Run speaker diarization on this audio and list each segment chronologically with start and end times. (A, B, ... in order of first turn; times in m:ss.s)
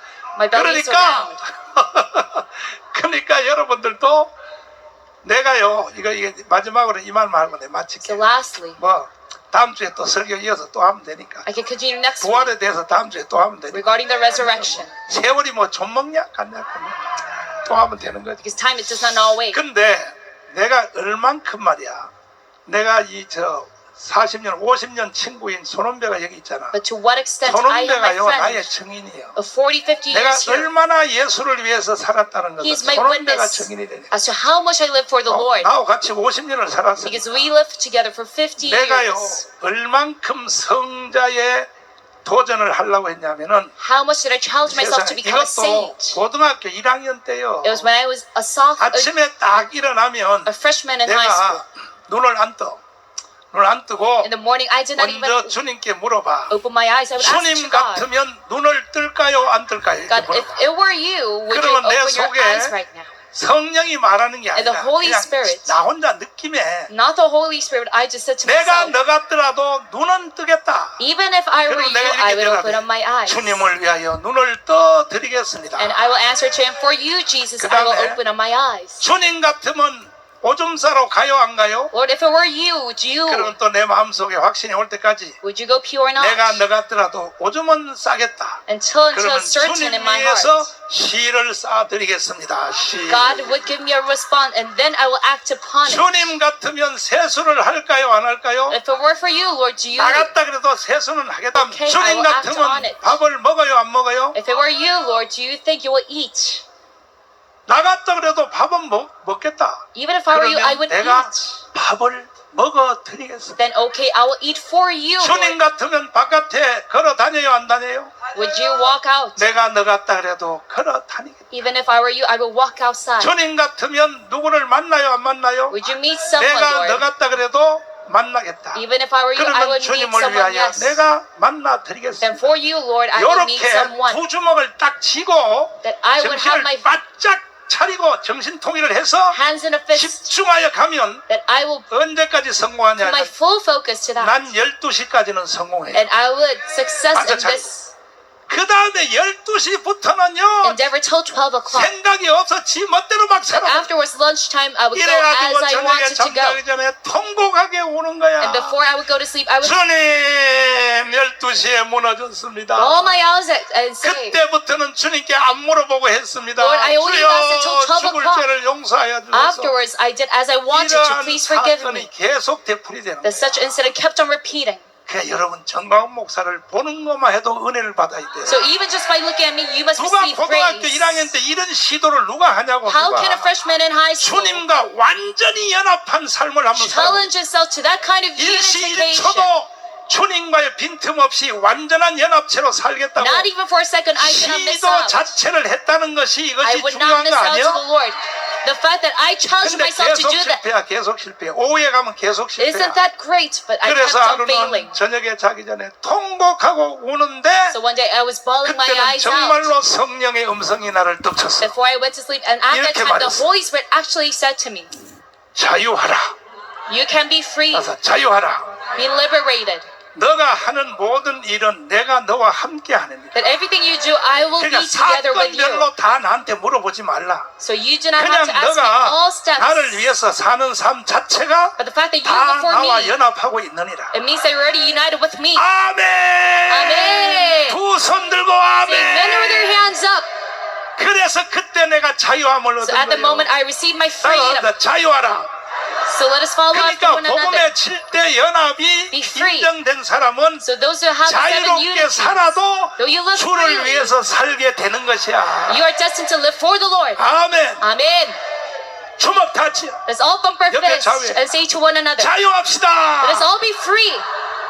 0:00.3-0:01.4 A
0:00.5-0:04.3 B
0:05.2-0:08.2 B
0:08.0-0:08.8 A
0:08.8-0:11.5 B
0:11.4-0:12.5 A
0:12.2-0:17.0 B
0:13.7-0:14.9 A
0:17.6-0:18.4 B
0:18.4-0:19.6 A
0:19.5-0:22.1 B
0:22.6-0:26.8 B
0:26.7-0:28.7 A
0:27.4-0:29.4 B
0:29.4-0:30.7 A
0:30.1-0:34.1 B
0:32.6-0:35.7 A
0:35.3-0:37.5 B
0:37.0-0:39.4 A
0:38.6-0:41.7 B
0:42.2-0:43.7 B
0:43.8-0:46.2 A
0:44.7-0:47.9 B
0:47.6-0:49.1 A
0:48.8-0:50.5 B
0:50.4-0:51.6 A
0:51.0-0:52.8 B
0:53.5-0:54.3 B
0:54.2-0:55.5 A
0:55.0-0:56.6 B
0:56.5-0:58.1 A
0:57.2-1:00.6 B
1:00.1-1:03.1 A
1:01.5-1:02.8 B
1:03.3-1:06.9 B
1:04.5-1:05.8 A
1:06.9-1:09.0 A
1:08.4-1:11.0 B
1:11.0-1:13.5 A
1:11.7-1:15.9 B
1:15.8-1:19.0 A
1:17.6-1:18.2 B
1:19.0-1:21.9 B
1:21.9-1:23.5 A
1:23.3-1:25.4 B
1:25.4-1:26.6 A
1:26.2-1:28.6 B
1:28.7-1:30.7 A
1:29.1-1:33.5 B
1:33.1-1:36.3 A
1:35.8-1:38.8 B
1:38.7-1:40.3 A
1:40.0-1:44.4 B
1:41.5-1:43.2 A
1:44.3-1:46.6 A
1:47.7-1:53.6 B
1:49.9-1:51.4 A
1:53.6-1:55.6 A
1:55.2-1:58.1 B
1:58.3-1:59.5 A
1:59.4-2:01.6 B
2:01.5-2:03.3 A
2:03.2-2:05.8 B
2:05.7-2:07.0 A
2:06.3-2:08.8 B
2:08.7-2:11.0 A
2:09.3-2:12.5 B
2:12.2-2:14.2 A
2:13.1-2:19.4 B
2:15.8-2:16.9 A
2:19.3-2:20.3 A
2:19.9-2:21.2 B
2:21.3-2:21.9 A
2:21.9-2:23.3 B
2:23.0-2:24.4 A
2:24.2-2:26.0 B
2:25.9-2:27.9 A
2:27.1-2:27.7 B
2:28.5-2:30.8 B
2:30.6-2:31.9 A
2:31.7-2:33.9 B
2:33.5-2:36.6 A
2:34.9-2:38.8 B
2:38.4-2:39.8 A
2:39.6-2:43.2 B
2:42.8-2:44.4 A
2:44.0-2:49.7 B
2:46.6-2:48.5 A
2:49.3-2:52.1 A
2:50.7-2:53.7 B
2:53.2-2:54.9 A
2:55.1-2:58.6 B
2:58.4-3:01.3 A
3:00.0-3:03.5 B
3:02.8-3:04.6 A
3:04.2-3:07.3 B
3:06.8-3:09.5 A
3:08.4-3:13.5 B
3:13.2-3:15.3 A
3:14.2-3:17.8 B
3:16.6-3:20.6 A
3:19.6-3:23.0 B
3:22.6-3:25.0 A
3:23.8-3:27.8 B
3:27.7-3:29.7 A
3:28.6-3:31.7 B
3:31.6-3:34.9 A
3:32.7-3:33.4 B
3:35.5-3:36.3 B
3:36.9-3:37.9 A
3:37.7-3:38.8 B
3:38.9-3:39.9 A
3:40.1-3:43.3 B
3:43.3-3:45.9 A
3:44.6-3:47.5 B
3:47.6-3:50.0 A
3:48.2-3:54.1 B
3:51.8-3:53.2 A
3:54.1-3:55.6 A
3:55.6-3:59.9 B
3:56.7-3:57.8 A
3:58.8-4:00.3 A
4:01.0-4:03.5 B
4:02.8-4:04.7 A
4:04.2-4:05.5 B
4:06.0-4:07.7 A
4:06.7-4:10.6 B
4:09.1-4:09.7 A
4:10.6-4:14.1 A
4:11.2-4:15.8 B
4:15.7-4:17.2 A
4:17.2-4:17.8 B
4:17.8-4:18.4 A
4:19.2-4:20.0 B
4:20.0-4:22.3 A
4:20.7-4:21.4 B
4:22.2-4:23.5 B
4:23.2-4:24.2 A